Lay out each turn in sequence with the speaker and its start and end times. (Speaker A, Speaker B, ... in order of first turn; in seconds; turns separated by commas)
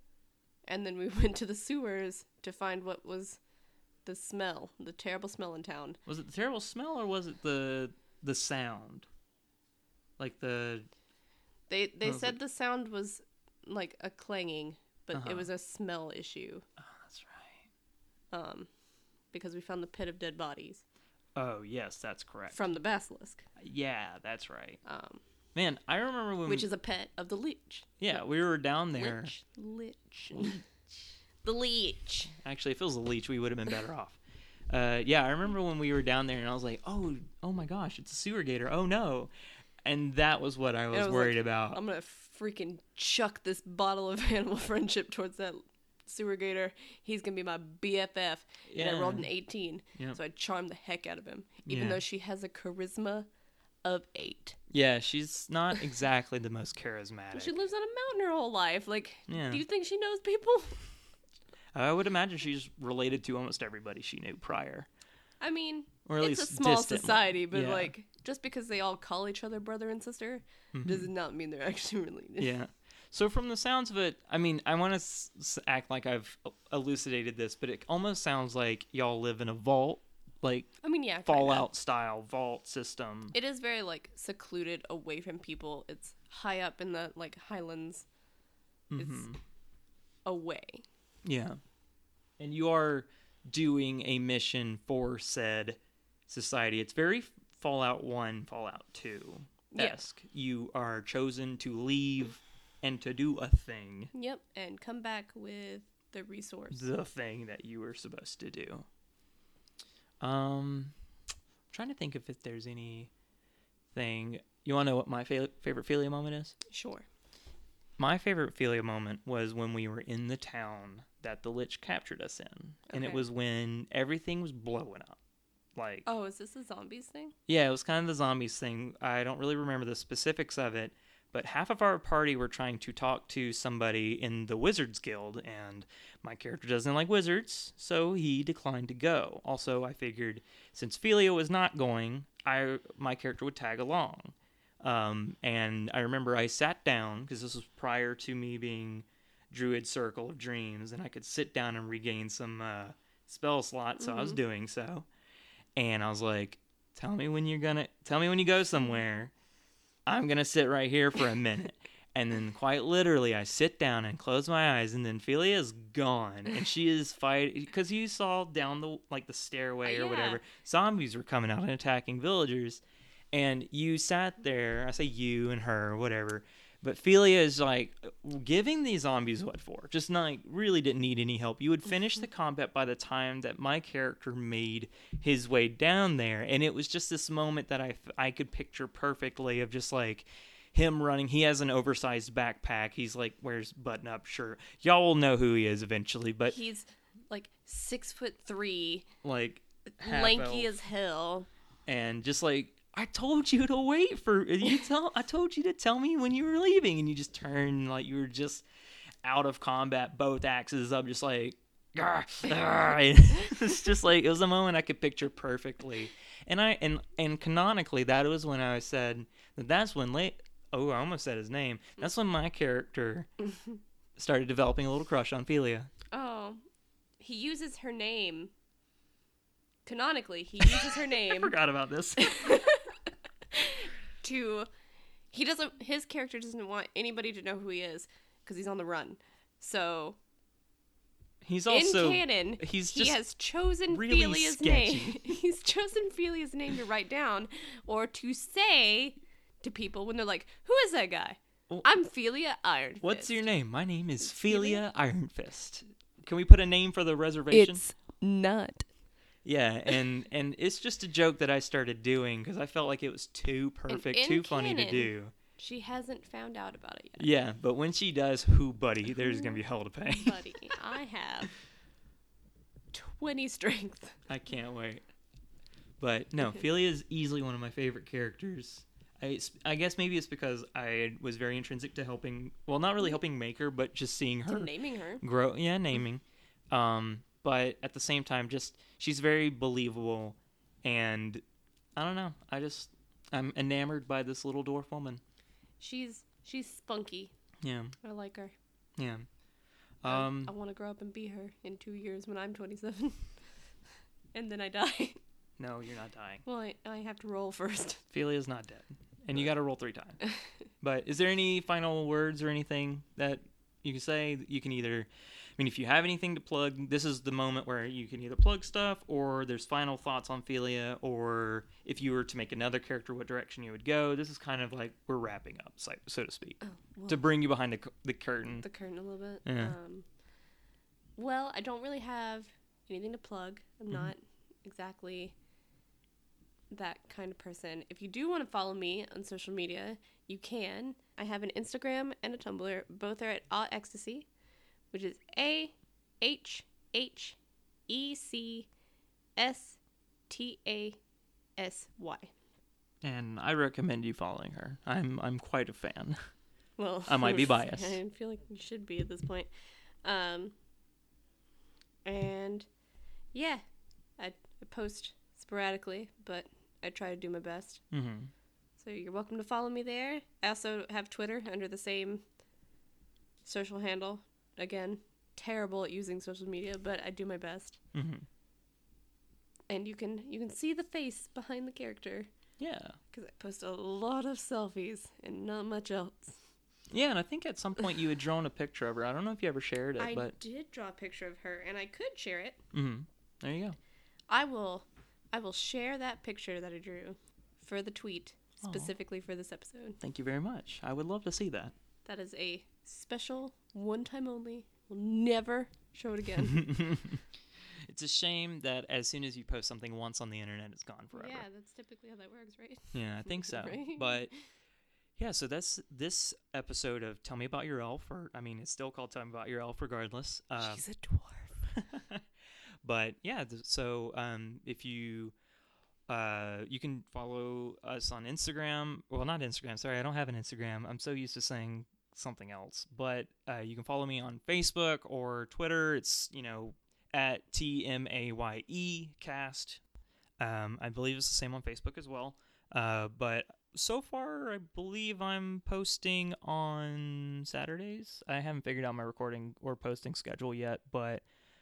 Speaker A: 0.7-3.4, Speaker A: 4.0-6.0, Speaker B: 6.1-9.1, Speaker B: 10.2-10.9, Speaker A: 11.7-16.6, Speaker B: 12.0-12.4, Speaker B: 15.1-15.5, Speaker B: 16.8-17.7, Speaker A: 18.3-18.7, Speaker A: 19.3-20.8, Speaker B: 21.4-22.7, Speaker A: 22.5-23.5, Speaker B: 23.6-24.8, Speaker A: 24.9-25.2, Speaker B: 25.6-26.7, Speaker A: 26.5-28.2, Speaker B: 28.0-29.3, Speaker A: 28.9-30.7, Speaker B: 30.3-30.6, Speaker A: 31.4-32.3, Speaker B: 32.3-39.3, Speaker B: 39.9-41.8, Speaker A: 40.9-53.3, Speaker B: 48.7-49.3, Speaker B: 51.7-52.0, Speaker A: 53.9-54.6, Speaker B: 54.7-57.5, Speaker A: 57.3-60.8, Speaker B: 59.3-59.6, Speaker B: 61.8-64.9, Speaker A: 65.4-72.5, Speaker B: 66.1-67.9, Speaker B: 70.7-71.1, Speaker B: 72.4-83.3, Speaker A: 80.8-81.7, Speaker A: 83.3-88.1, Speaker B: 88.9-89.4, Speaker A: 89.0-89.3, Speaker A: 90.3-90.8, Speaker B: 91.2-91.6, Speaker B: 92.4-104.1, Speaker A: 99.7-100.0, Speaker A: 104.1-106.9, Speaker B: 106.7-108.9, Speaker B: 110.2-110.9, Speaker B: 111.7-113.1, Speaker B: 113.9-116.6, Speaker A: 116.7-117.1, Speaker B: 118.0-125.2, Speaker A: 122.9-123.2, Speaker B: 125.8-126.1, Speaker A: 126.0-127.3, Speaker B: 127.5-155.1, Speaker A: 154.0-154.4, Speaker B: 155.8-159.3, Speaker B: 160.1-196.6, Speaker A: 169.8-170.4, Speaker A: 196.5-199.1, Speaker B: 199.2-200.8, Speaker A: 200.0-201.5, Speaker B: 201.9-208.7, Speaker B: 209.2-223.3, Speaker B: 224.2-225.9, Speaker A: 226.1-226.6, Speaker A: 227.2-228.5, Speaker A: 229.9-231.5, Speaker B: 230.6-232.7, Speaker A: 232.2-233.0, Speaker A: 233.5-234.7, Speaker A: 235.3-240.2, Speaker B: 241.4-243.2, Speaker A: 241.7-253.5, Speaker B: 243.9-245.4, Speaker B: 253.0-257.8, Speaker A: 254.3-254.8, Speaker A: 257.5-258.9, Speaker B: 259.4-265.3, Speaker A: 263.9-267.3, Speaker B: 267.2-270.8, Speaker A: 269.2-271.5, Speaker A: 272.9-274.2, Speaker B: 274.3-275.0, Speaker B: 276.0-291.4, Speaker A: 284.5-285.2, Speaker B: 292.0-295.2, Speaker A: 295.8-297.3, Speaker B: 297.6-297.9, Speaker A: 298.0-298.6, Speaker B: 299.0-299.3, Speaker B: 300.0-300.5, Speaker A: 300.1-303.3, Speaker A: 304.3-305.2, Speaker B: 305.6-306.4, Speaker A: 306.4-308.1, Speaker B: 308.1-310.2, Speaker B: 310.8-328.7, Speaker A: 326.6-327.3, Speaker A: 328.6-330.1, Speaker B: 329.4-329.8, Speaker A: 331.2-335.4, Speaker A: 336.7-344.3, Speaker A: 344.9-348.7, Speaker A: 349.4-351.0, Speaker A: 351.6-352.3, Speaker B: 353.0-356.2, Speaker A: 356.8-359.5, Speaker B: 357.1-358.0, Speaker A: 360.0-360.5, Speaker A: 362.1-362.7, Speaker A: 363.3-363.6, Speaker A: 364.2-367.8, Speaker B: 367.9-368.3, Speaker A: 368.8-372.2, Speaker A: 373.5-377.8, Speaker B: 377.9-378.3, Speaker A: 379.7-382.3, Speaker B: 382.6-383.0, Speaker A: 383.1-386.4, Speaker B: 386.9-390.4, Speaker A: 390.0-392.6, Speaker B: 392.7-393.8, Speaker A: 394.3-400.0, Speaker B: 398.6-398.9, Speaker B: 400.0-401.8, Speaker A: 402.1-406.9, Speaker B: 406.4-407.2, Speaker B: 407.9-411.5, Speaker A: 411.1-414.3, Speaker B: 412.9-414.3, Speaker B: 415.2-420.8, Speaker A: 420.6-421.6, Speaker B: 421.6-422.2, Speaker B: 422.8-425.4, Speaker B: 426.1-439.8, Speaker B: 440.4-451.2